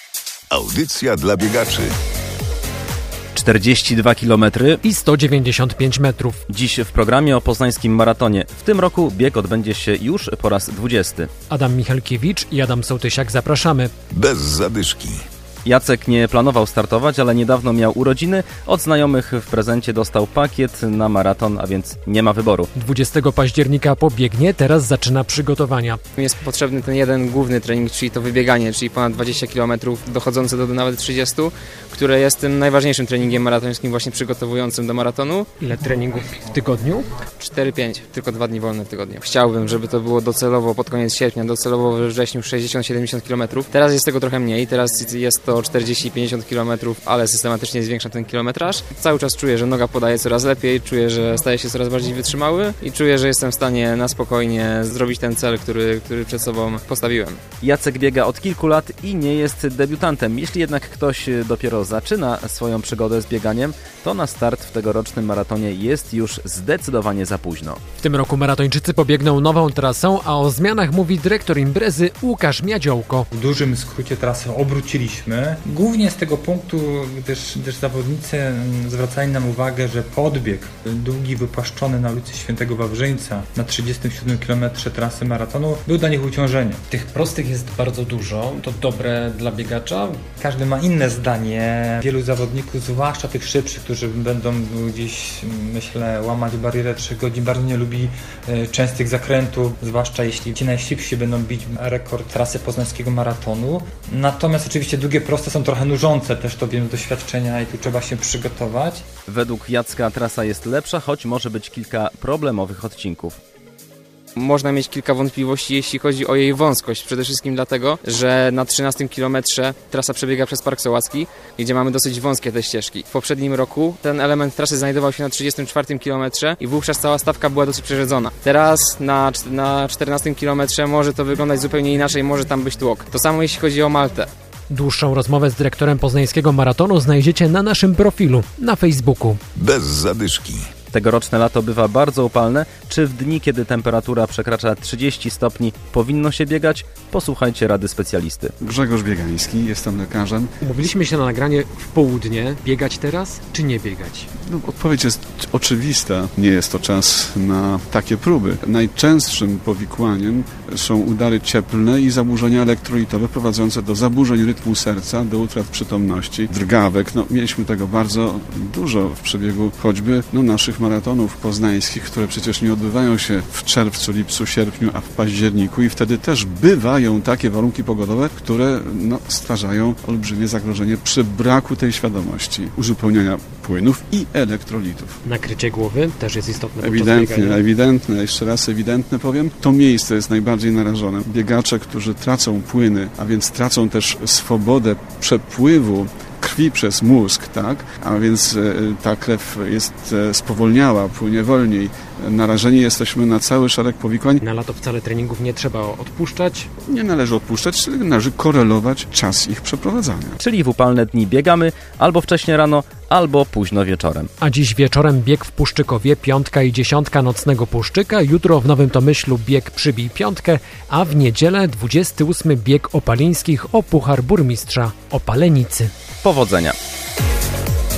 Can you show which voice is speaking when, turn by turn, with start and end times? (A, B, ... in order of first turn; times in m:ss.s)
0:00.5-0:01.9 A
0:03.3-0:04.8 B
0:04.8-0:06.4 C
0:06.5-0:11.3 B
0:11.5-0:13.9 C
0:14.1-0:15.2 A
0:15.6-0:22.7 B
0:22.8-0:26.0 C
0:26.2-0:35.5 D
0:35.6-0:37.1 C
0:37.4-0:57.4 D
0:57.6-1:07.8 B
1:08.0-1:13.3 C
1:13.3-1:26.8 E
1:26.9-1:30.2 C
1:30.4-1:49.0 E
1:49.3-1:53.4 B
1:54.4-2:14.3 D
2:14.7-2:19.4 C
2:19.6-2:20.7 A
2:20.9-2:28.5 B
2:28.6-2:30.5 F
2:30.6-2:34.3 C
2:34.5-3:05.2 F
3:05.2-3:07.6 C
3:06.8-3:24.4 F
3:24.4-3:26.7 C
3:26.9-3:30.4 F
3:30.4-3:34.3 B
3:34.4-3:45.9 C
3:46.2-3:46.8 B